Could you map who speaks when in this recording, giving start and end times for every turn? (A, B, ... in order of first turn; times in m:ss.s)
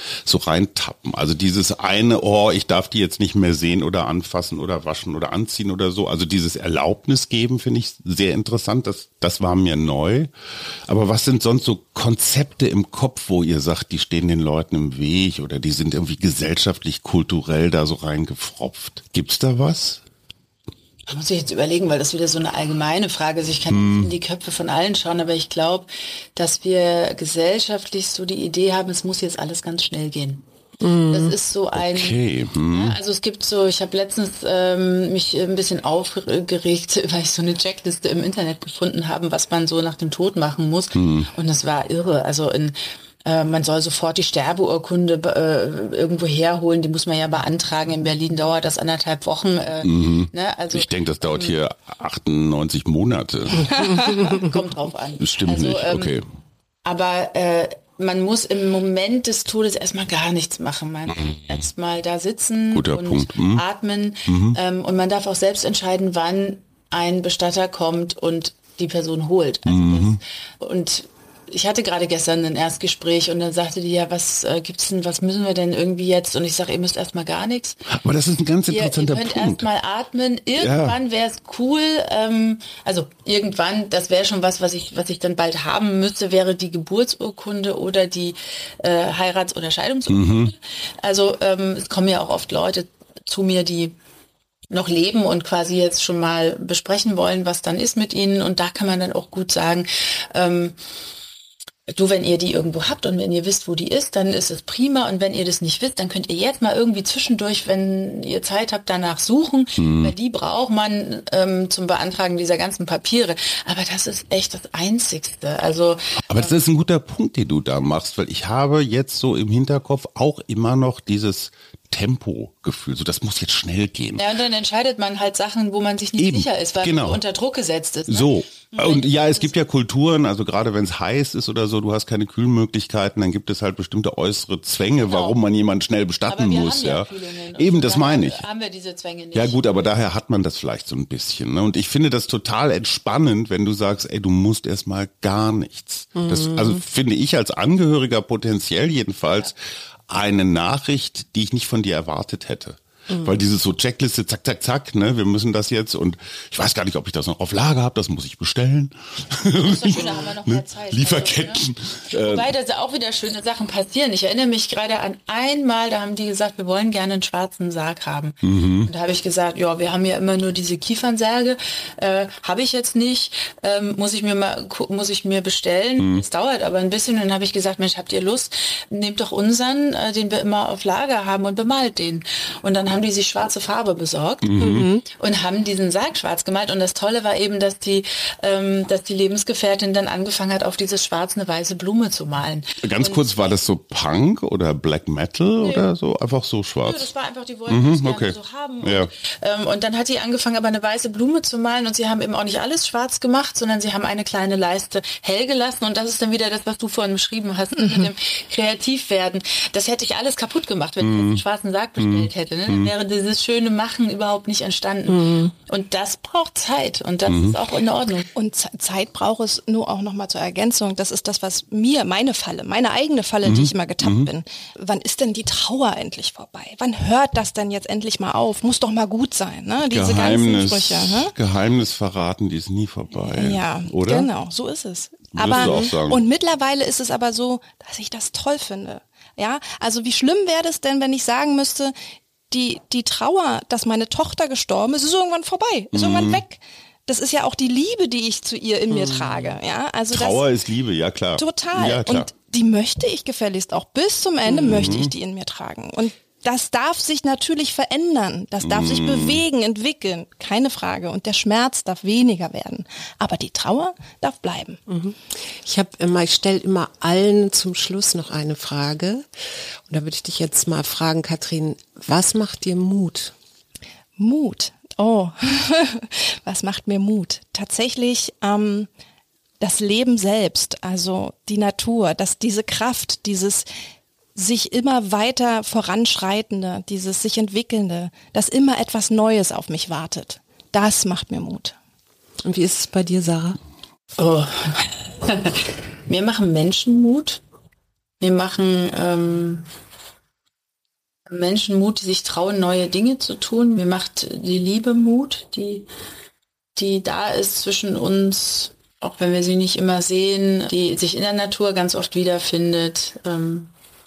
0:00.2-0:10.3 A
0:10.9-0:20.0 A
0:21.1-0:30.4 B
0:23.7-0:24.1 A
0:30.8-0:31.4 C
0:31.1-0:51.6 B
0:31.8-0:33.0 A
0:41.0-0:41.3 A
0:49.8-0:54.1 A
0:53.7-0:54.4 C
0:54.0-0:56.1 B
0:55.2-0:56.2 A
0:56.8-1:17.8 B
1:02.7-1:03.6 A
1:04.3-1:04.6 A
1:09.7-1:10.2 A
1:17.9-1:19.7 A
1:18.7-1:34.0 B
1:20.6-1:21.0 A
1:30.1-1:30.5 A
1:34.7-1:40.8 B
1:41.9-1:56.5 B
1:49.8-1:50.1 A
1:56.3-2:04.2 A
2:04.2-2:09.5 B
2:06.2-2:07.2 A
2:08.1-2:18.4 A
2:15.0-2:15.4 B
2:16.3-2:19.6 B
2:19.3-2:29.6 A
2:26.2-2:26.8 C
2:30.1-2:42.5 A
2:39.6-3:13.6 B
2:48.4-2:48.9 A
3:04.4-3:04.9 A
3:04.6-3:05.0 C
3:12.8-3:17.1 A
3:15.6-3:15.9 B
3:16.8-3:38.3 B
3:17.7-3:19.1 A
3:31.0-3:31.4 A
3:32.0-3:32.9 A
3:35.1-3:35.5 C
3:37.3-3:37.6 A
3:38.4-3:51.3 D
3:43.4-3:44.3 A
3:49.9-3:54.3 A
3:53.3-4:01.9 D
3:55.3-3:56.2 A
3:55.6-3:55.9 C
4:02.5-4:10.4 D
4:05.9-4:06.4 A
4:08.9-4:09.4 C
4:10.1-4:12.3 A
4:11.4-4:24.8 D
4:14.5-4:14.8 C
4:14.6-4:15.1 A
4:18.6-4:19.4 A
4:24.9-4:29.3 C
4:29.9-4:33.3 C
4:34.2-4:38.9 D
4:39.6-4:43.7 D
4:44.4-4:51.8 D
4:52.4-4:53.6 C
4:54.2-4:57.4 B
4:58.2-4:59.7 B
5:01.3-5:05.9 B
5:06.8-5:13.7 B